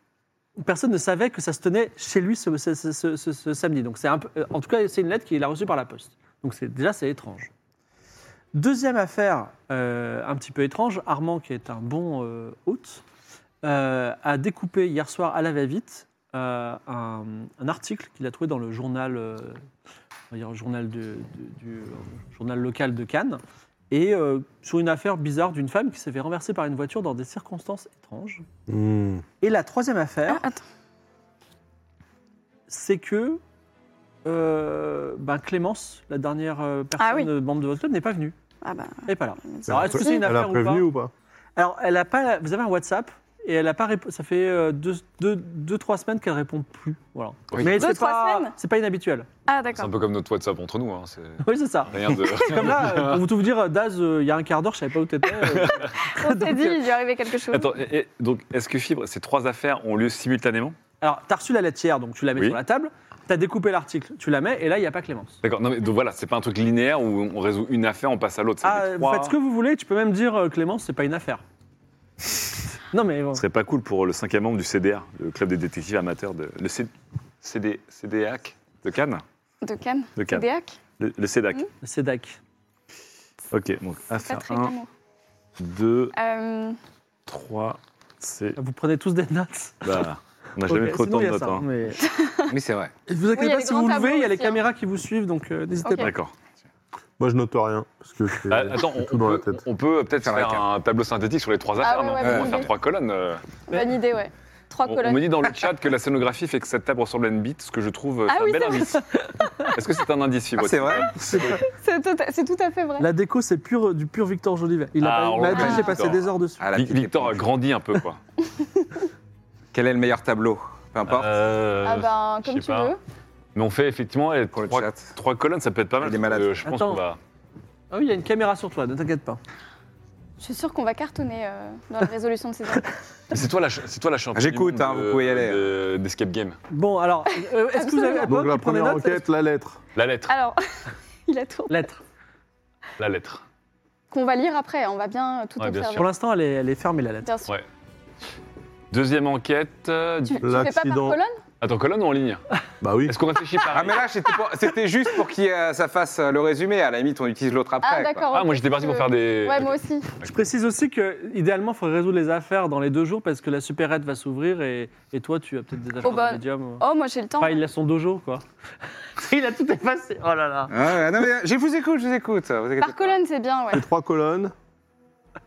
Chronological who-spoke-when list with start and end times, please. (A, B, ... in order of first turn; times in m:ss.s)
0:00.6-0:07.5 A
0:08.5-0:13.0 A
0:13.6-0:19.6 A
0:20.3-0:28.4 A
0:28.7-0:29.2 B
0:29.4-0:30.4 A
0:30.3-0:30.6 C
0:32.7-0:33.4 A
0:34.2-0:38.4 A
0:37.0-0:37.3 C
0:38.6-0:40.3 C
0:39.1-0:40.9 A
0:39.7-0:41.1 B
0:41.6-0:49.3 A
0:47.5-0:47.8 D
0:47.7-0:48.5 C
0:49.5-0:49.9 C
0:49.8-0:53.2 D
0:51.4-0:56.8 A
0:55.4-0:55.9 D
0:56.1-0:57.7 C
0:57.5-1:00.8 D
1:01.0-1:05.4 A
1:05.4-1:09.3 D
1:08.6-1:11.4 A
1:12.9-1:13.4 A
1:13.3-1:16.9 D
1:17.4-1:19.2 D
1:19.6-1:20.8 C
1:20.2-1:20.4 D
1:21.0-1:21.6 D
1:21.8-1:22.4 A
1:23.5-1:24.7 D
1:24.2-1:24.9 C
1:25.6-1:26.1 D
1:26.1-1:26.8 C
1:27.3-1:28.6 D
1:28.6-1:30.0 A
1:29.8-1:31.7 D
1:30.6-1:32.0 A
1:32.0-1:32.5 C
1:32.5-1:32.9 E
1:33.1-1:36.1 A
1:33.3-1:34.6 C
1:35.8-1:36.1 C
1:36.0-1:36.3 D
1:37.2-1:39.6 B
1:38.5-1:43.4 D
1:40.2-1:40.6 E
1:41.8-1:42.7 C
1:42.2-1:42.6 E
1:43.7-1:45.3 C
1:44.8-1:49.0 D
1:48.3-1:49.0 C
1:49.1-1:49.7 A
1:49.6-1:51.6 D
1:50.6-1:51.2 E
1:51.2-1:51.6 A
1:51.6-1:53.1 C
1:53.0-1:56.6 A
1:55.0-1:58.2 D
1:55.5-1:56.0 C
1:55.5-1:55.9 E
1:56.6-1:57.4 E
1:59.7-2:01.3 E
2:01.0-2:02.9 D
2:01.8-2:03.0 C
2:03.5-2:07.2 D
2:04.5-2:05.1 E
2:06.0-2:06.6 E
2:06.6-2:07.0 A
2:07.9-2:09.4 A
2:10.4-2:12.9 C
2:13.3-2:16.6 D
2:14.3-2:15.6 E
2:16.7-2:19.2 A
2:17.7-2:18.3 C
2:18.2-2:19.8 B
2:19.9-2:20.3 D
2:20.3-2:20.6 C
2:21.3-2:21.9 C
2:21.7-2:22.0 A
2:23.0-2:23.4 D
2:24.1-2:26.1 C
2:25.6-2:26.0 D
2:26.0-2:27.3 A
2:27.2-2:27.5 C
2:28.9-2:30.4 D
2:30.2-2:31.4 C
2:30.4-2:31.2 B
2:31.6-2:32.4 D
2:32.8-2:33.2 B
2:33.0-2:34.0 D
2:33.7-2:38.3 E
2:37.8-2:40.1 C
2:38.3-2:40.3 D
2:40.2-2:46.8 A
2:46.0-2:47.6 C
2:47.4-2:48.4 A
2:49.2-2:50.7 A
2:50.7-2:53.2 E
2:52.8-2:53.8 C
2:53.7-2:54.5 B